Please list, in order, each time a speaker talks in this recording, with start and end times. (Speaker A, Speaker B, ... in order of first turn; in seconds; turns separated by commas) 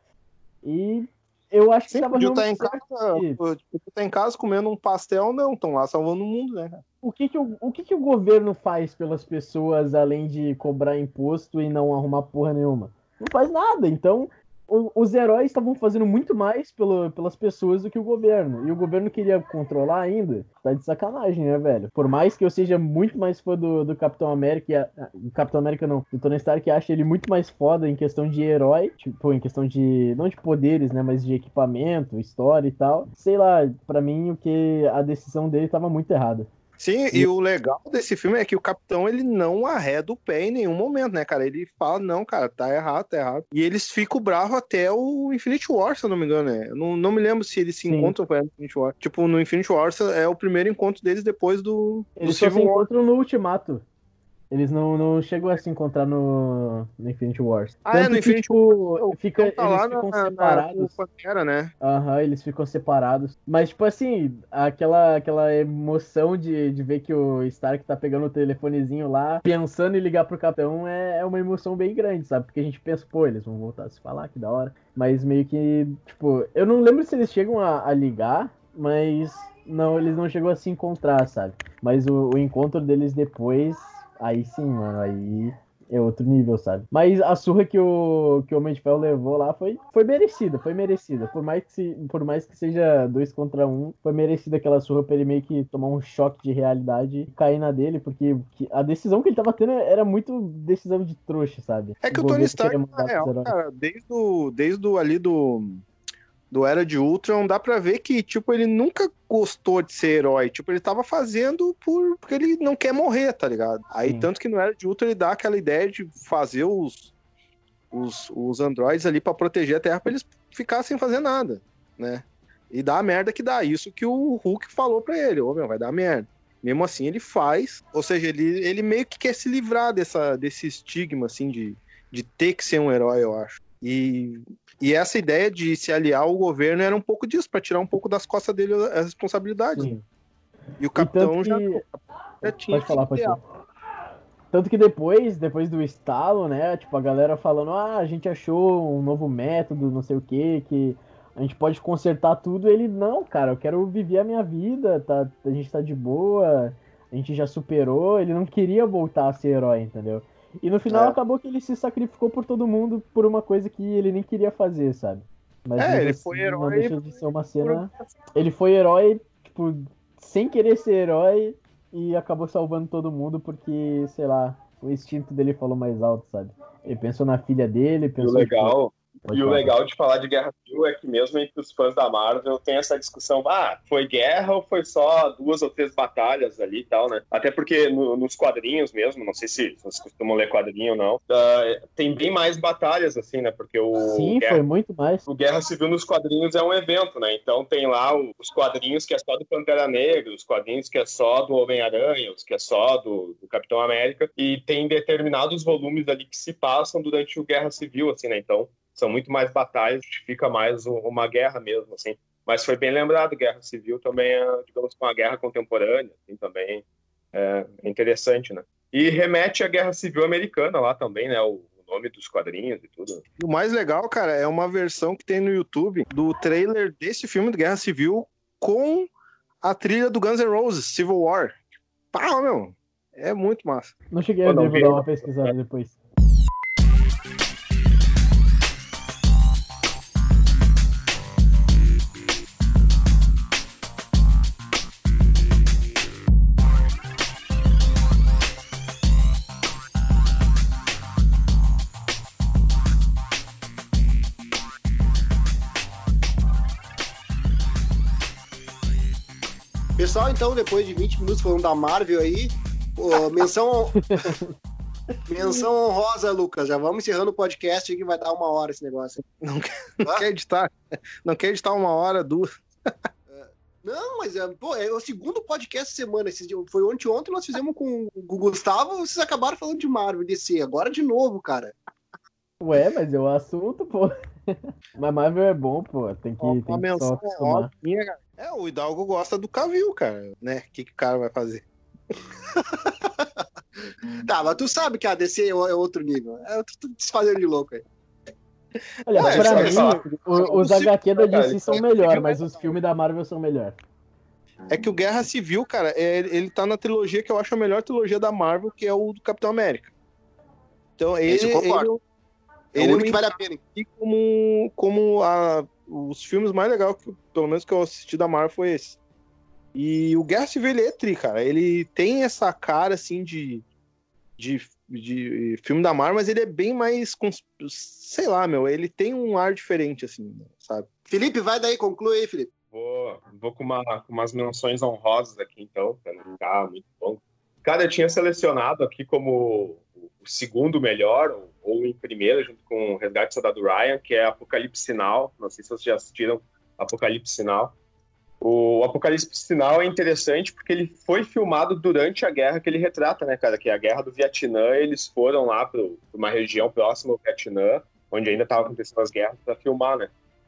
Speaker A: 0.6-3.4, Speaker B: 1.9-6.8, Speaker A: 7.0-36.5, Speaker B: 36.8-52.9, Speaker A: 47.9-48.1, Speaker A: 52.2-53.8, Speaker A: 54.5-60.9, Speaker B: 57.9-61.7, Speaker A: 61.8-103.5, Speaker B: 102.0-105.8, Speaker B: 106.5-117.1, Speaker B: 117.9-139.9, Speaker A: 139.8-140.0, Speaker B: 140.8-141.9, Speaker A: 140.9-141.8, Speaker B: 142.4-143.4, Speaker A: 142.7-143.4, Speaker A: 144.5-179.7, Speaker B: 160.9-161.2, Speaker B: 165.8-167.9, Speaker C: 178.2-194.6, Speaker A: 194.1-195.2, Speaker C: 195.2-223.2, Speaker B: 223.4-229.1, Speaker B: 229.6-231.6, Speaker B: 232.1-233.9, Speaker A: 234.1-236.0, Speaker C: 234.4-235.5, Speaker D: 260.0-264.3, Speaker A: 264.1-264.5, Speaker D: 265.3-269.2, Speaker B: 269.4-270.7, Speaker B: 271.2-272.9, Speaker D: 273.3-281.7, Speaker A: 282.6-287.7, Speaker B: 286.4-291.6, Speaker D: 292.5-293.4, Speaker D: 294.2-297.9, Speaker A: 299.1-303.8, Speaker B: 299.1-299.8, Speaker C: 299.2-302.4, Speaker B: 304.7-309.9, Speaker B: 311.0-312.0, Speaker D: 311.3-311.9, Speaker B: 312.7-319.0, Speaker D: 312.8-313.6, Speaker B: 319.8-323.6, Speaker B: 324.4-330.9, Speaker D: 331.1-332.5, Speaker C: 332.7-347.8, Speaker C: 348.4-360.1